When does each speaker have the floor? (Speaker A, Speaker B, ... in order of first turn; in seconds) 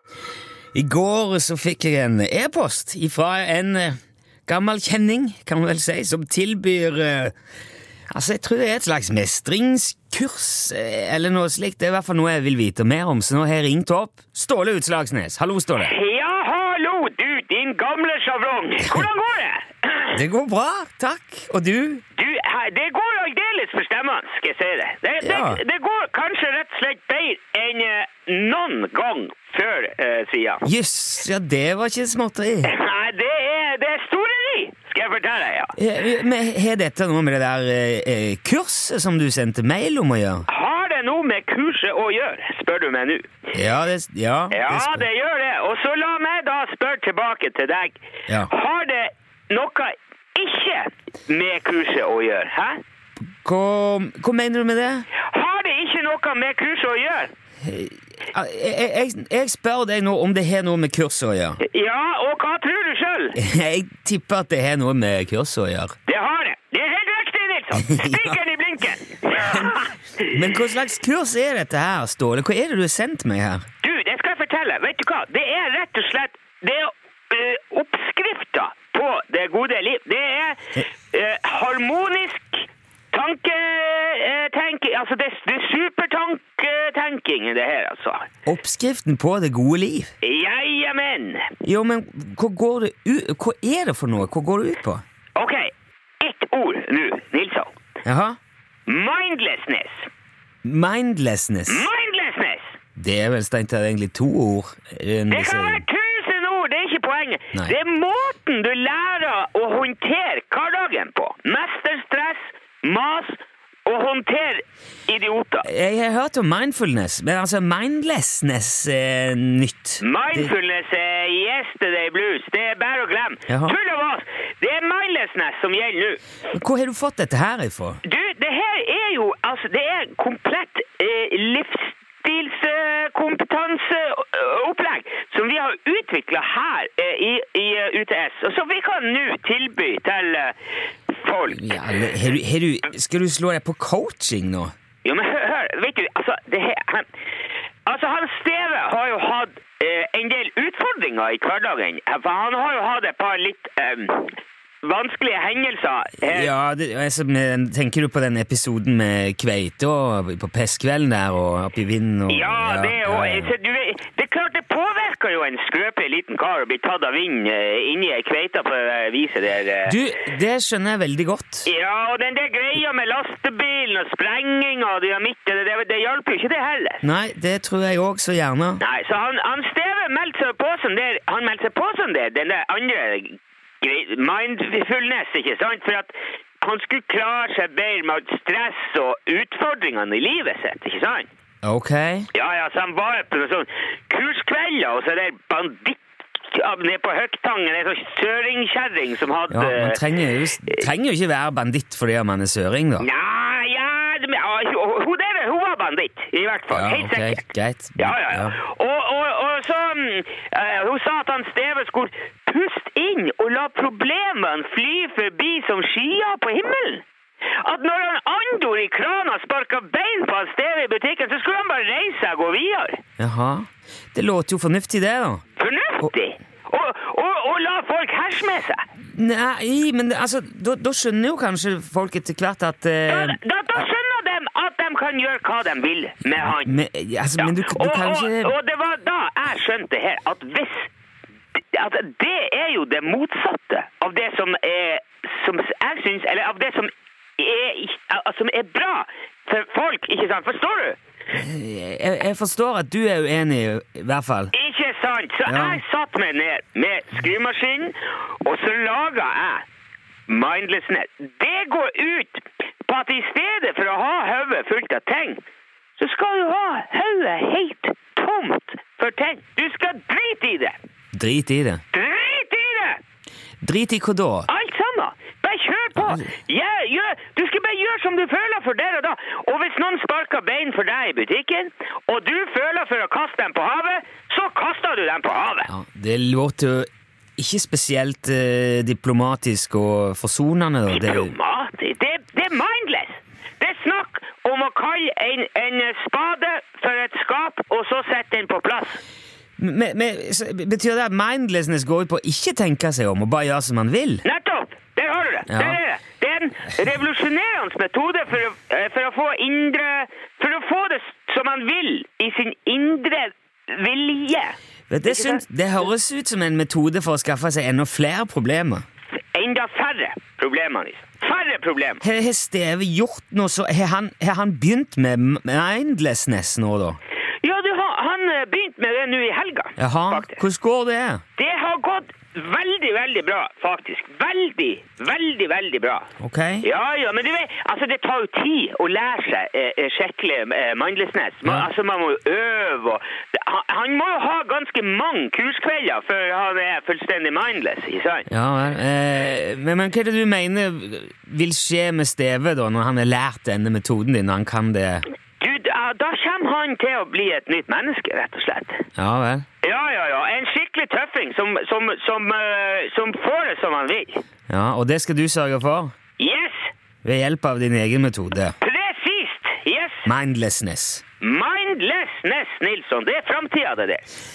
Speaker A: 0.7-4.0, 4.5-7.3, 8.1-15.9, 20.1-22.0, 25.2-25.6, 30.6-32.7, 35.8-40.5, 43.5-45.0, 53.4-55.0, 57.6-61.6, 63.4-65.9, 67.7-68.4, 69.3-73.6, 88.5-90.1, 91.6-95.0, 98.0-98.4, 100.6-101.9, 103.0-105.8, 115.6-120.5, 123.5-123.7, 126.5-128.0, 141.5-144.7, 156.2-163.5, 169.9-171.7, 177.0-178.8, 191.6-192.3, 199.5-203.1, 206.7-208.6, 223.2-225.4, 229.1-233.4, 236.4-238.5, 251.3-254.5, 255.4-255.8, 271.1-271.8, 273.6-274.5, 275.9-276.3, 285.7-291.3, 299.6-304.2, 305.5-305.8, 314.9-318.8, 322.0-327.0, 329.8-331.2, 336.2-336.6, 348.3-355.1, 359.0-359.4, 364.5-365.9, 367.0-368.5, 370.0-371.0
Speaker B: 15.8-20.2, 22.1-30.6, 32.6-35.7, 40.5-43.3, 44.5-52.8, 55.2-57.3, 61.6-63.4, 66.1-70.3, 73.8-88.3, 90.2-91.5, 95.3-97.7, 98.9-100.1, 101.7-102.7, 105.3-115.7, 120.0-126.2, 128.0-140.5, 141.1-141.8, 145.0-147.1, 147.8-156.5, 162.3-170.0, 171.7-177.0, 178.8-191.3, 192.3-200.0, 203.0-207.4, 208.0-217.0, 217.6-223.0, 225.6-228.8, 233.1-236.7, 237.4-240.9, 241.7-251.0, 254.5-259.6, 260.3-265.4, 266.0-270.8, 271.9-273.0, 274.5-285.7, 290.9-299.0, 304.2-315.4, 319.3-322.0, 327.4-330.4, 331.4-336.1, 336.6-348.3, 355.4-358.9, 359.6-364.2, 366.2-366.7, 368.6-370.1, 371.2-374.0